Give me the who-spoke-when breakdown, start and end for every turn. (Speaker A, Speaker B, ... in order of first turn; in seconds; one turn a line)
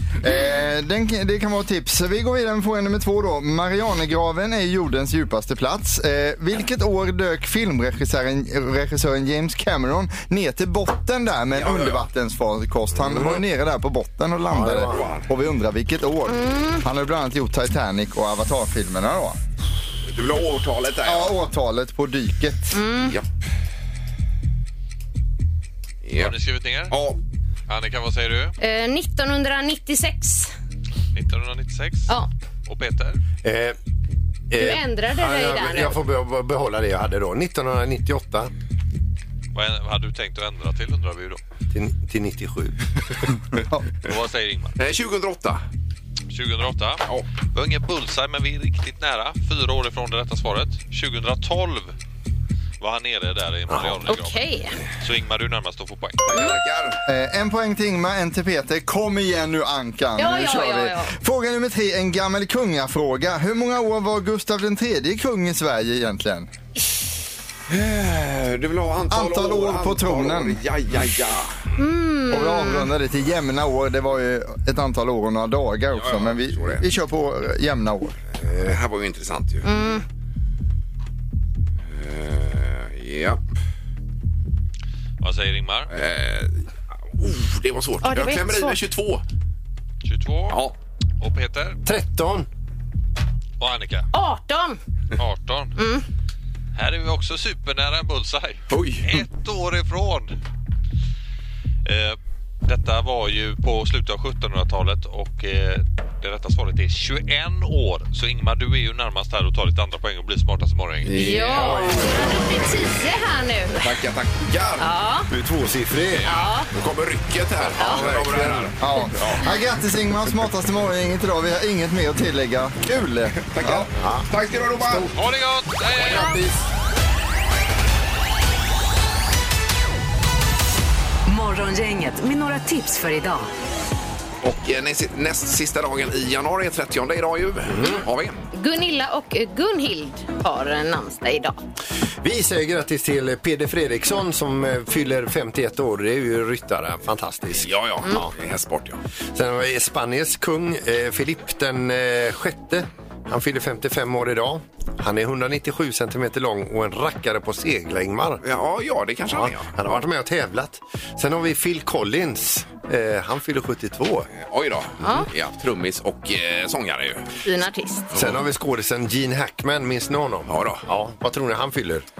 Speaker A: 0.2-19.4
Speaker B: 11.5-12.1
Speaker C: 12.9-13.4
Speaker C: 14.5-15.1
Speaker B: 14.9-15.3
Speaker D: 16.3-16.8
Speaker B: 20.1-21.3
Speaker A: 21.0-22.8
Speaker D: 22.7-23.1
Speaker B: 26.0-26.3
Speaker E: 26.1-27.0
Speaker B: 26.9-27.2
Speaker E: 27.7-28.5
Speaker D: 28.6-30.5
Speaker E: 31.1-32.1
Speaker E: 32.6-33.2
Speaker C: 33.4-33.8
Speaker C: 34.5-38.5
Speaker D: 34.6-36.0
Speaker E: 39.5-41.4
Speaker C: 41.7-42.8
Speaker E: 44.0-44.8
Speaker B: 44.8-45.6
Speaker E: 46.3-51.9
Speaker E: 52.8-54.4
Speaker D: 54.1-54.8
Speaker E: 55.0-56.3
Speaker B: 56.2-57.0
Speaker A: 57.0-66.5
Speaker D: 60.2-61.1
Speaker B: 67.7-71.6
Speaker A: 69.1-70.6
Speaker D: 71.8-72.9
Speaker A: 72.3-78.2
Speaker B: 75.9-76.8
Speaker B: 78.3-79.8
Speaker D: 79.6-80.0
Speaker B: 81.9-83.4
Speaker E: 85.2-85.9
Speaker B: 85.9-86.6
Speaker B: 87.2-89.2
Speaker D: 88.0-88.8
Speaker E: 90.0-90.6
Speaker E: 91.2-91.8
Speaker C: 91.8-92.5
Speaker E: 93.6-94.1
Speaker D: 94.1-94.8
Speaker E: 95.2-95.8
Speaker D: 95.8-96.0
Speaker E: 96.7-100.4
Speaker B: 98.7-99.1
Speaker E: 101.8-111.4
Speaker B: 111.0-112.0
Speaker D: 111.2-113.9
Speaker C: 111.3-112.5
Speaker B: 113.8-114.9
Speaker D: 114.8-115.3
Speaker C: 115.3-116.3
Speaker B: 116.1-119.5
Speaker D: 116.2-116.7
Speaker C: 117.7-118.7
Speaker D: 117.8-118.0
Speaker A: 118.8-123.9
Speaker B: 123.4-125.1
Speaker C: 124.0-125.1
Speaker E: 125.1-126.4
Speaker C: 126.0-126.5
Speaker F: 131.2-133.5
Speaker B: 134.4-138.4
Speaker C: 137.7-138.0
Speaker D: 138.5-141.6
Speaker C: 142.2-148.3
Speaker B: 147.6-149.0
Speaker C: 149.3-158.4
Speaker B: 158.4-160.0
Speaker C: 159.3-164.3
Speaker B: 164.4-167.2
Speaker D: 165.0-165.3
Speaker D: 167.4-168.1
Speaker B: 168.1-168.4
Speaker C: 168.1-172.1
Speaker B: 170.5-170.8